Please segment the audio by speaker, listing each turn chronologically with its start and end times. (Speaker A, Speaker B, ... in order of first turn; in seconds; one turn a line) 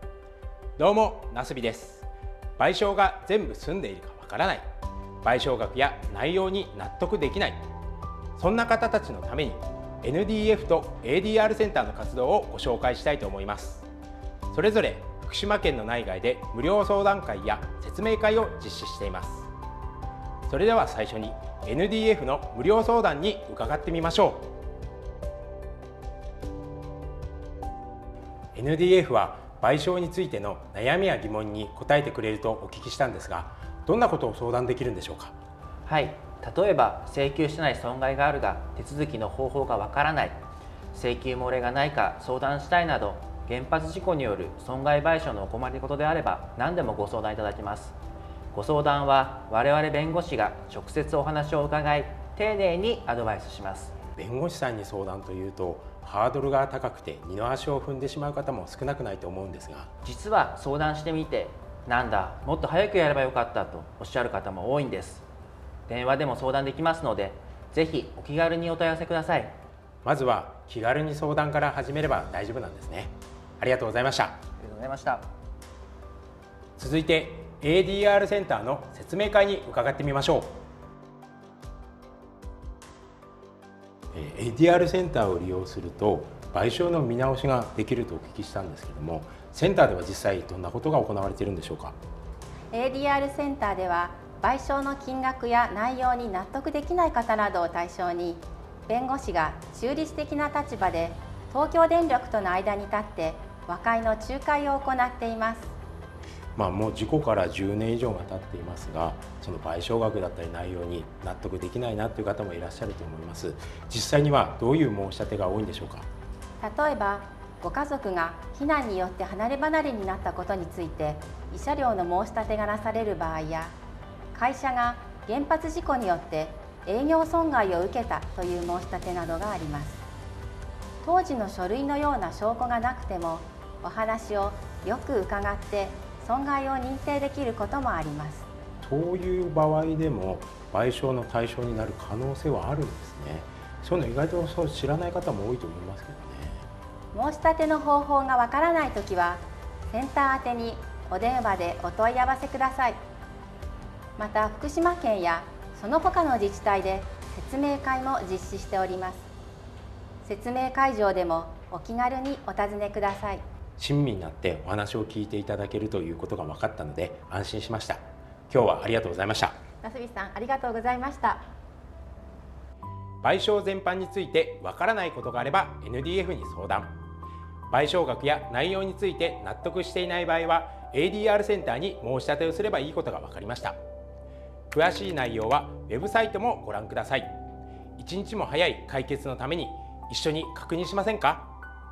Speaker A: 0.8-2.1
Speaker A: 2.6-4.6
Speaker A: 5.2-7.6
Speaker A: 8.3-13.9
Speaker A: 14.5-19.5
Speaker A: 20.5-24.5
Speaker A: 28.5-35.3
Speaker B: 35.9-40.4
Speaker B: 40.9-48.0
Speaker B: 48.5-53.9
Speaker A: 54.1-59.9
Speaker B: 60.0-65.2
Speaker B: 65.9-69.5
Speaker A: 70.0-74.4
Speaker B: 74.6-75.2
Speaker A: 76.8-80.5
Speaker A: 84.1-92.0
Speaker C: 92.7-105.7
Speaker A: 106.5-116.1
Speaker C: 116.6-123.7
Speaker C: 124.3-130.0
Speaker C: 131.0-138.5
Speaker A: 138.8-146.6
Speaker C: 147.1-153.0
Speaker C: 154.2-159.3
Speaker C: 160.2-163.4
Speaker A: 163.8-169.5
Speaker C: 169.8-171.4
Speaker A: 173.2-176.9
Speaker A: 177.7-183.8
Speaker A: 184.7-187.3
Speaker A: 188.0-191.5